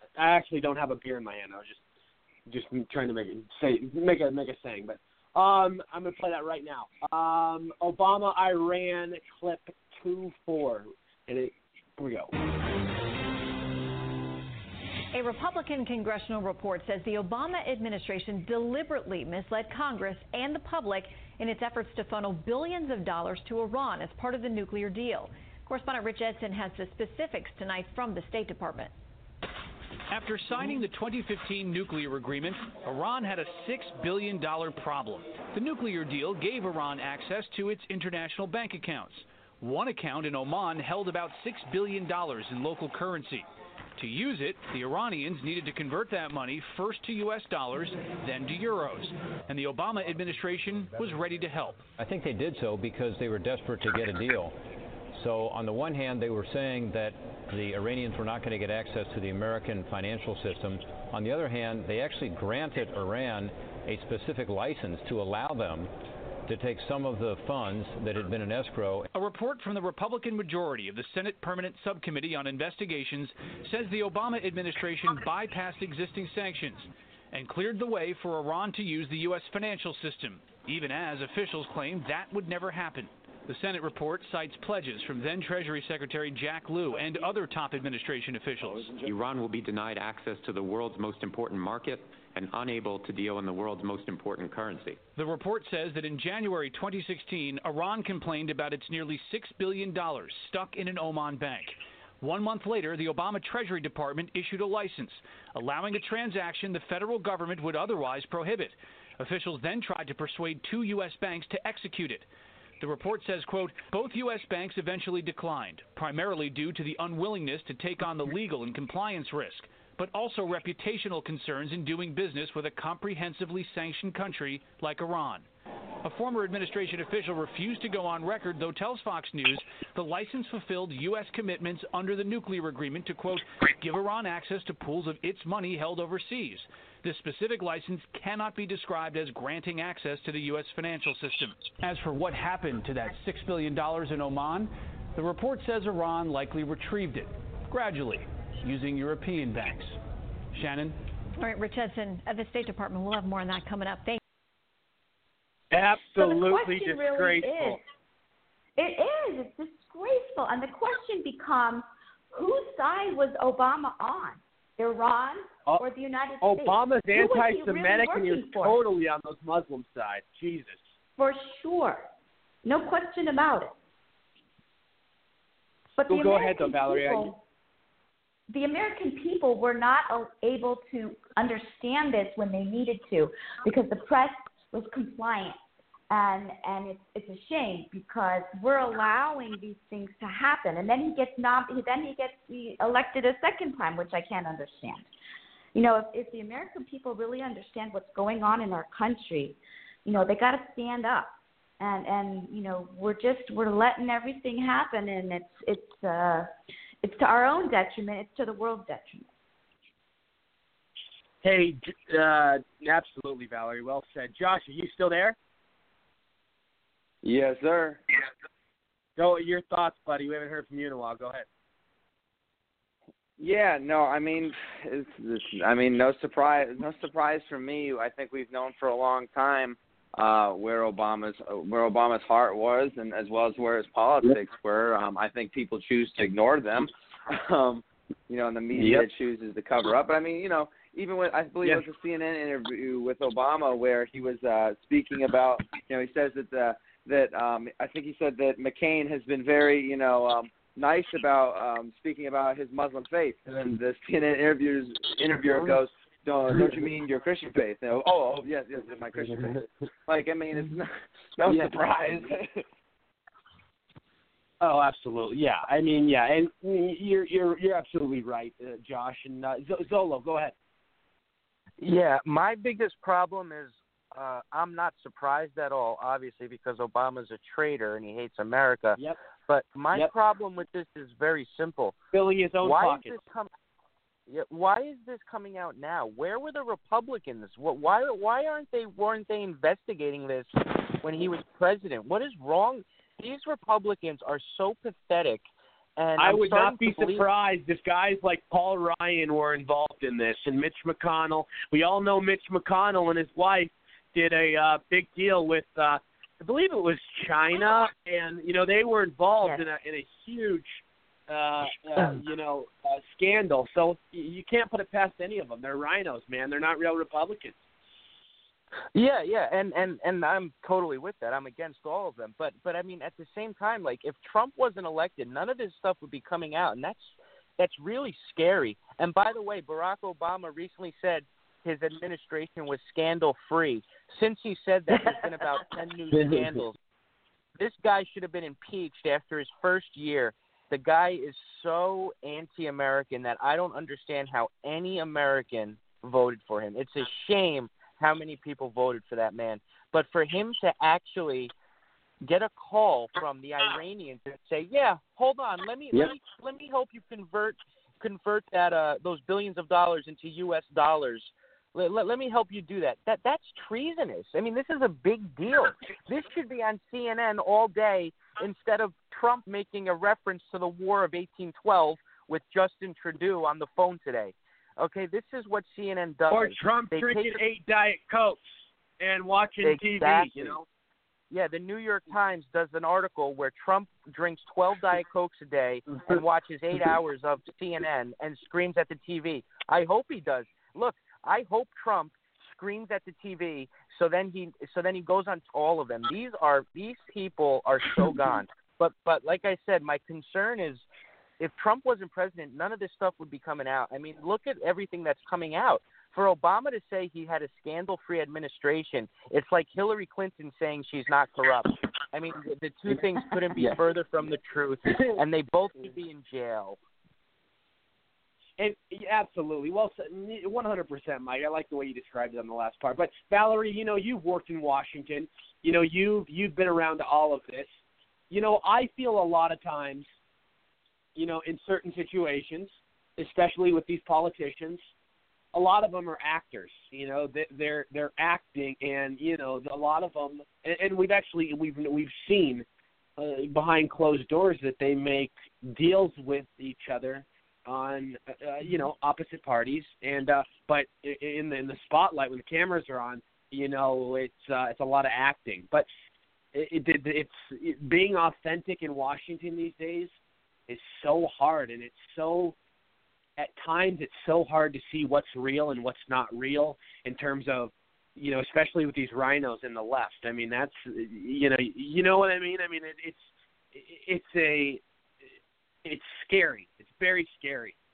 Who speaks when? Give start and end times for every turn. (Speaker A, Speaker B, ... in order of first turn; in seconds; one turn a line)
Speaker A: 0.2-1.8
Speaker A: 2.5-12.3
Speaker B: 15.1-28.9
Speaker C: 30.1-51.9
Speaker D: 52.0-54.6
Speaker D: 55.1-65.9
Speaker D: 66.5-69.1
Speaker C: 69.1-88.9
Speaker E: 89.0-95.0
Speaker C: 95.2-112.3
Speaker C: 112.8-125.5
Speaker C: 126.0-150.0
Speaker C: 150.5-151.0
Speaker B: 151.4-154.2
Speaker A: 155.7-157.8
Speaker F: 156.0-157.8
Speaker F: 158.8-168.8
Speaker A: 166.4-170.9
Speaker F: 171.2-172.1
Speaker F: 172.6-173.8
Speaker F: 176.0-177.4
Speaker A: 176.1-177.3
Speaker F: 178.5-185.6
Speaker F: 186.1-195.1
Speaker F: 195.7-206.5
Speaker F: 207.0-209.3
Speaker A: 211.4-215.4
Speaker G: 217.2-218.0
Speaker A: 219.2-221.5
Speaker G: 223.4-262.3
Speaker A: 238.8-239.1
Speaker A: 261.5-261.8
Speaker A: 264.6-270.5
Speaker H: 271.8-282.0
Speaker A: 282.1-283.2
Speaker H: 282.6-283.5
Speaker H: 284.3-290.5
Speaker H: 291.0-295.5
Speaker H: 296.0-297.3
Speaker A: 296.2-317.6
Speaker H: 318.9-336.8
Speaker A: 336.1-336.6
Speaker H: 337.6-351.5
Speaker H: 352.2-377.4
Speaker A: 376.3-380.6
Speaker H: 379.6-380.5
Speaker H: 381.3-400.9
Speaker A: 385.9-386.2
Speaker H: 401.4-416.8
Speaker A: 414.9-415.2
Speaker A: 418.6-430.1
Speaker A: 431.2-434.9
Speaker A: 435.5-442.7
Speaker A: 443.2-455.9
Speaker A: 456.5-460.1
Speaker A: 460.7-462.6
Speaker A: 463.4-474.8
Speaker A: 475.8-477.8